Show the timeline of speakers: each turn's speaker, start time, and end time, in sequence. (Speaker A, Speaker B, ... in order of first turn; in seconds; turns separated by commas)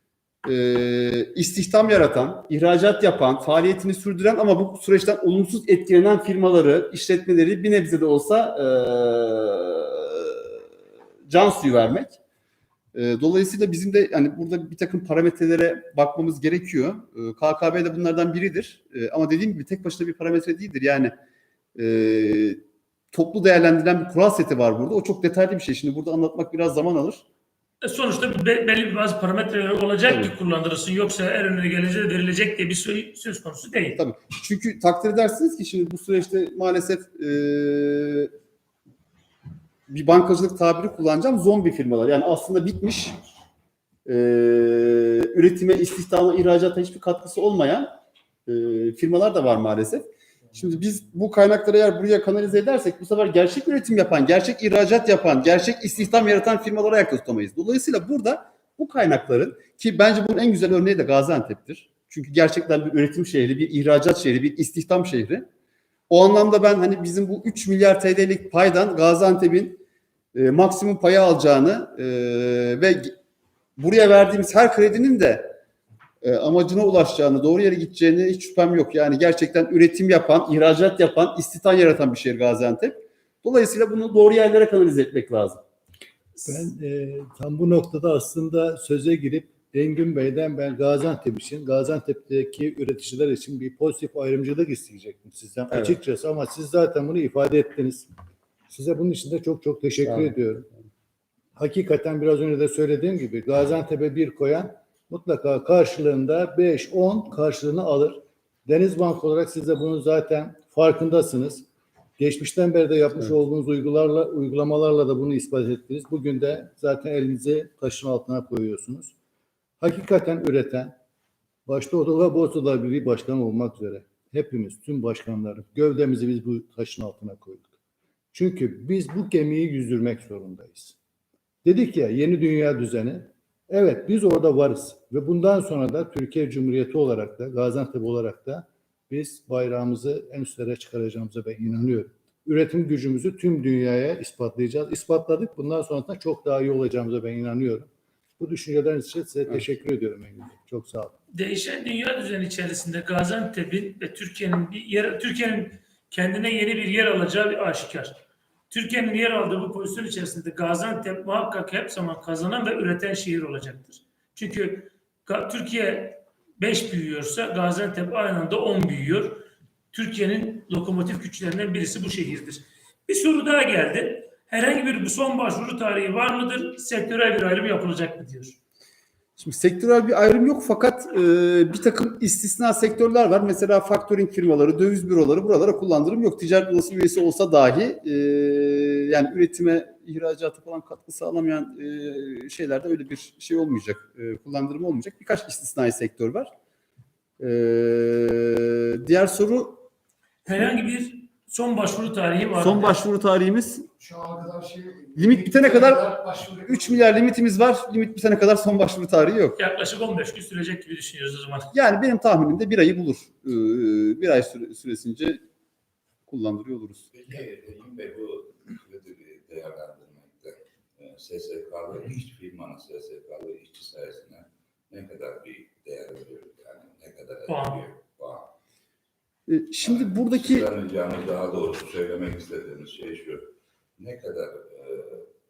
Speaker A: 0.4-10.6, Speaker A: 11.3-12.2, Speaker A: 12.9-21.1, Speaker A: 21.8-27.2, Speaker B: 27.8-34.0, Speaker A: 30.0-30.3, Speaker A: 34.0-38.3, Speaker A: 39.9-43.1, Speaker A: 44.0-47.9, Speaker A: 48.5-65.5, Speaker A: 66.1-69.8, Speaker A: 70.3-73.1, Speaker A: 73.8-75.6, Speaker A: 76.2-85.6, Speaker B: 86.4-86.7, Speaker C: 86.5-98.1, Speaker A: 95.7-96.0, Speaker C: 98.7-100.7, Speaker C: 101.5-111.7, Speaker C: 112.2-119.1, Speaker C: 119.8-121.0, Speaker C: 121.7-127.7, Speaker C: 128.3-130.9, Speaker C: 131.6-151.2, Speaker B: 151.3-158.2, Speaker B: 158.7-178.6, Speaker A: 179.4-196.5, Speaker A: 197.4-199.9, Speaker B: 200.4-203.0, Speaker A: 202.5-203.9, Speaker D: 204.0-207.2, Speaker A: 205.2-206.1, Speaker A: 206.7-209.6, Speaker B: 209.6-211.7, Speaker A: 211.7-215.4, Speaker A: 216.3-217.1, Speaker E: 217.1-228.5, Speaker B: 227.5-227.8, Speaker A: 229.5-230.7, Speaker E: 229.8-235.3